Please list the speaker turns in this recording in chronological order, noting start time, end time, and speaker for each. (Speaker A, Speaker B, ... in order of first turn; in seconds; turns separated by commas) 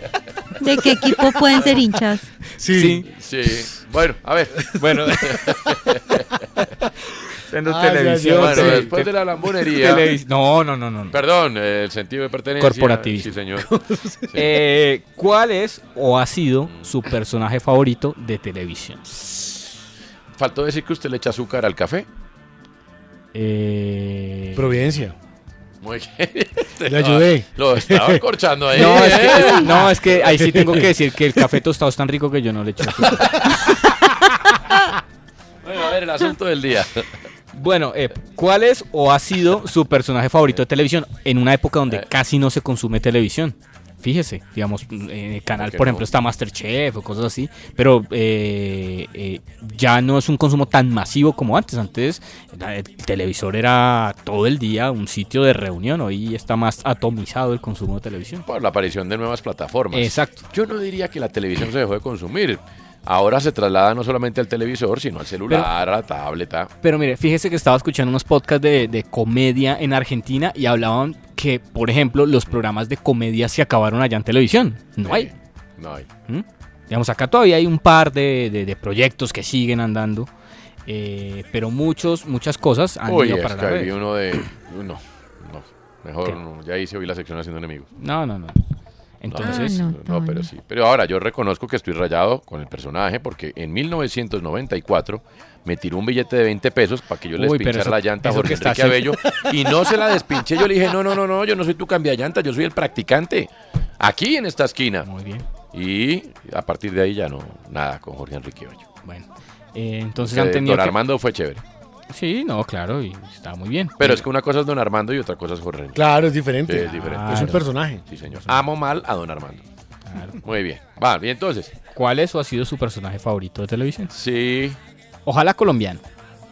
Speaker A: 0.6-2.3, Speaker B: 2.6-3.0, Speaker C: 2.7-3.0, Speaker D: 3.2-6.2, Speaker C: 4.8-5.4, Speaker C: 7.5-9.1, Speaker B: 7.6-8.9, Speaker D: 8.4-10.1, Speaker C: 9.6-11.2, Speaker D: 11.1-13.7, Speaker C: 12.6-13.3, Speaker B: 13.6-14.3, Speaker C: 14.3-19.1, Speaker D: 20.4-22.1, Speaker C: 23.3-24.7, Speaker B: 24.5-25.1, Speaker D: 25.8-29.9, Speaker B: 26.9-28.2, Speaker B: 28.7-30.9, Speaker C: 28.7-33.4, Speaker D: 35.6-37.0, Speaker C: 37.5-58.4, Speaker D: 45.6-46.0, Speaker D: 58.5-66.7, Speaker C: 59.9-60.4, Speaker C: 66.8-75.3, Speaker D: 75.0-76.1, Speaker C: 76.3-80.3, Speaker C: 80.9-83.9, Speaker D: 83.1-87.9, Speaker C: 88.0-88.6, Speaker C: 89.2-89.8, Speaker D: 89.3-103.5, Speaker A: 89.4-90.5, Speaker C: 97.4-99.2, Speaker D: 104.0-105.1, Speaker C: 105.0-105.4, Speaker D: 105.7-108.9, Speaker C: 109.0-111.0, Speaker D: 110.2-111.6, Speaker C: 112.1-114.2, Speaker D: 114.0-116.1, Speaker B: 115.9-118.0, Speaker D: 116.7-117.4, Speaker C: 116.9-117.6, Speaker D: 118.1-119.6, Speaker C: 120.1-120.4, Speaker D: 120.4-121.7, Speaker C: 121.9-124.1, Speaker D: 124.1-124.8, Speaker C: 125.2-126.0